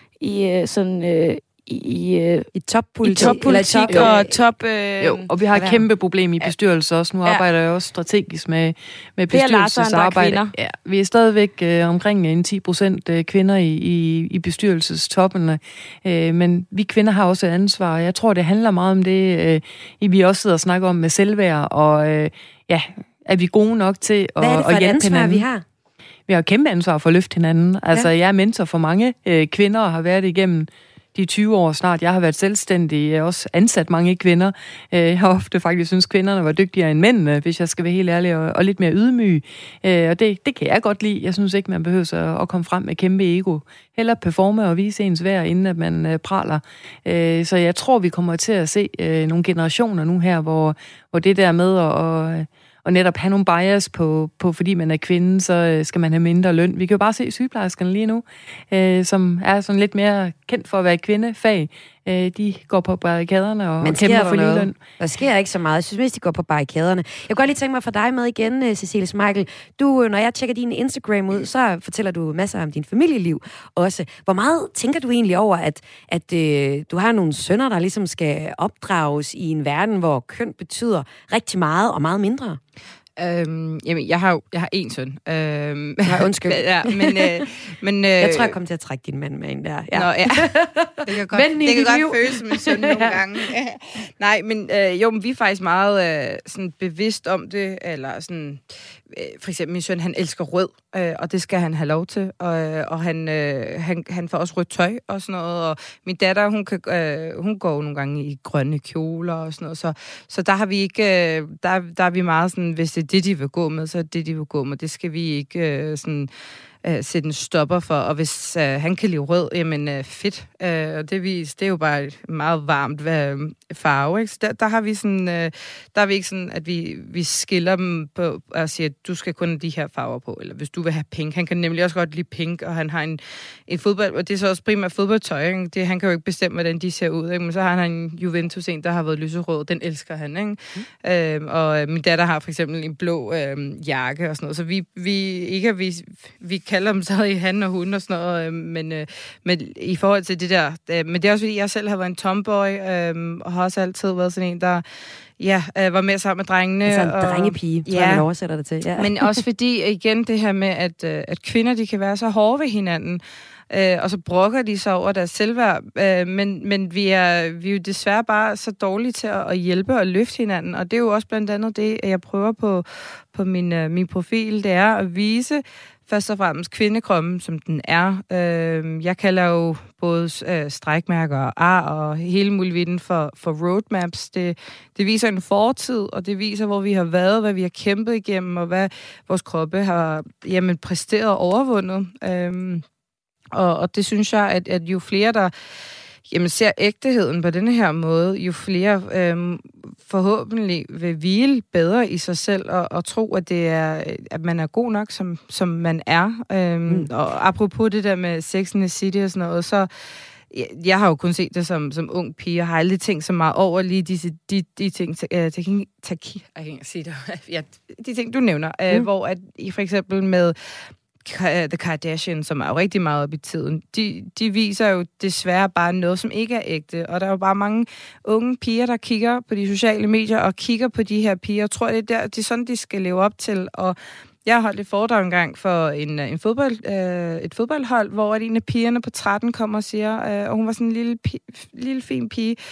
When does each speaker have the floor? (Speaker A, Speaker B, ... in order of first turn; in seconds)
Speaker A: 0.2-2.5, 3.1-5.3, 9.3-10.5
Speaker B: 2.5-4.3, 5.5-5.8, 24.4-25.6, 63.8-82.6, 86.0-87.5, 88.2-93.2, 156.8-159.1
Speaker C: 5.0-25.4, 26.3-64.7
Speaker D: 83.2-88.6, 89.9-116.3, 116.8-154.8, 155.4-158.2, 159.0-192.8, 193.5-195.5, 196.3-209.9, 210.5-220.6, 221.2-242.6